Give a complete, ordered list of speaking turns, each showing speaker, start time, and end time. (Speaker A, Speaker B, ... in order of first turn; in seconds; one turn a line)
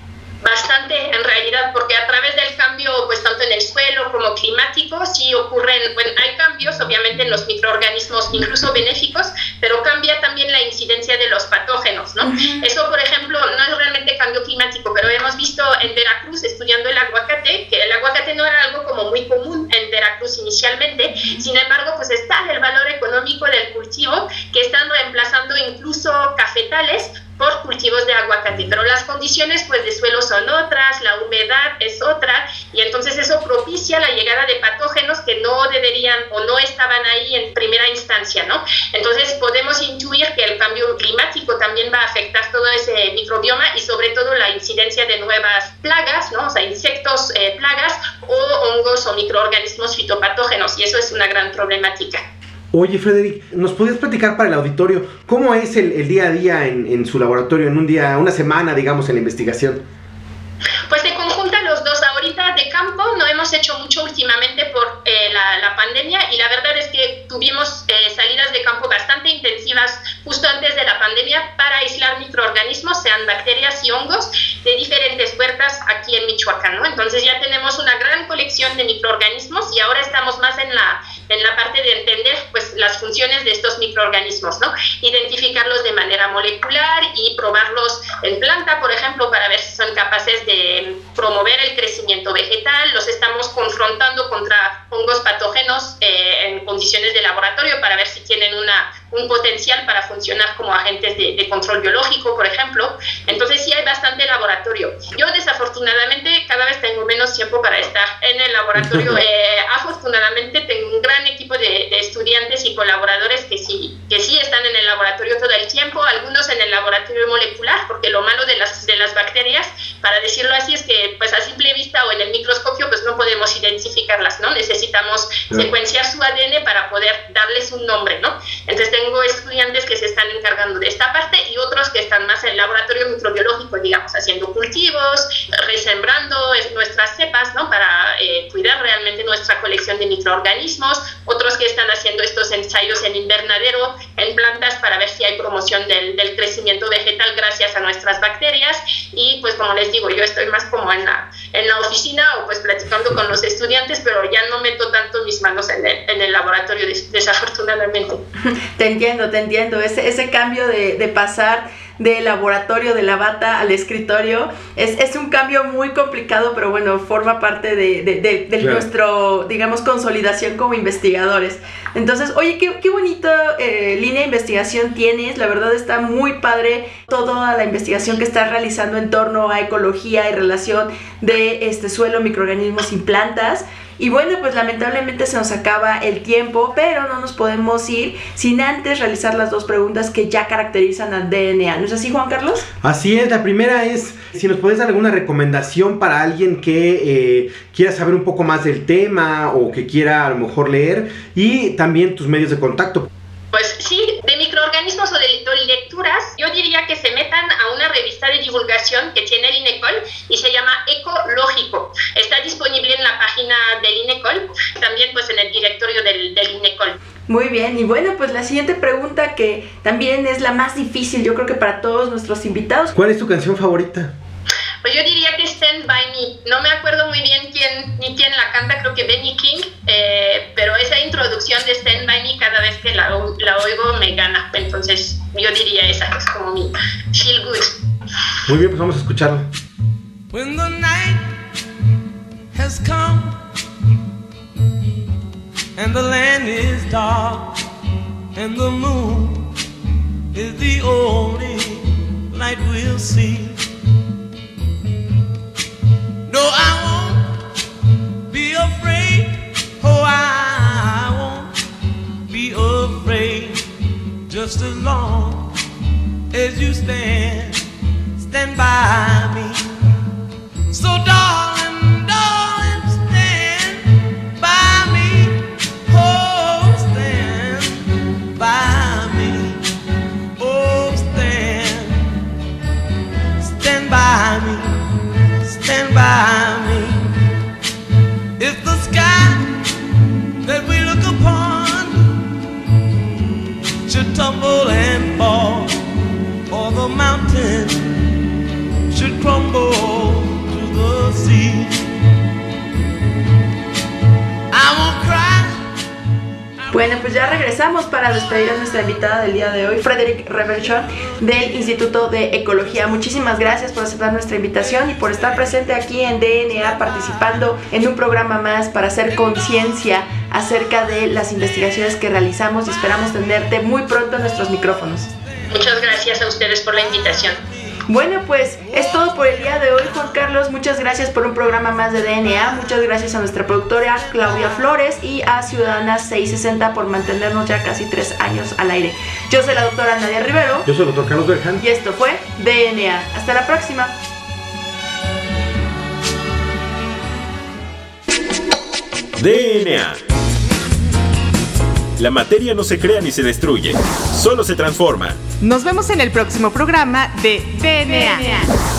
Speaker A: 0.4-52.2
Speaker B: 12.2-12.7
Speaker B: 21.2-21.4
Speaker C: 52.7-59.8
Speaker A: 60.9-158.2
Speaker C: 108.8-109.2
Speaker B: 158.8-192.7
Speaker C: 168.6-168.8
Speaker C: 192.8-203.1
Speaker A: 203.5-217.0
Speaker B: 217.3-222.9
Speaker C: 222.9-224.1
Speaker A: 224.8-237.8
Speaker C: 238.4-239.5
Speaker D: 240.3-241.3
Speaker D: 242.5-243.4
Speaker D: 245.8-247.6
Speaker D: 248.3-249.5
Speaker D: 250.3-253.6
Speaker D: 256.3-257.4
Speaker D: 258.3-261.5
Speaker D: 262.3-263.7
Speaker D: 264.3-265.5
Speaker D: 266.3-267.6
Speaker D: 268.2-269.6
Speaker D: 270.7-279.6
Speaker D: 280.4-282.0
Speaker D: 283.4-284.8
Speaker D: 285.4-287.1
Speaker D: 288.4-289.5
Speaker D: 290.4-292.1
Speaker D: 293.9-295.8
Speaker D: 296.5-297.9
Speaker D: 298.9-301.8
Speaker D: 304.5-305.6
Speaker D: 306.6-307.5
Speaker B: 306.7-325.1
Speaker D: 308.1-309.7
Speaker D: 310.3-313.6
Speaker D: 314.6-317.5
Speaker D: 325.0-326.1
Speaker A: 325.5-327.4
Speaker D: 326.7-327.8
Speaker B: 327.9-340.6
Speaker D: 328.6-330.2
Speaker D: 331.3-334.8
Speaker C: 340.6-341.6
Speaker B: 341.6-343.9
Speaker E: 349.2-350.0
Speaker E: 352.0-355.2
Speaker F: 355.4-358.5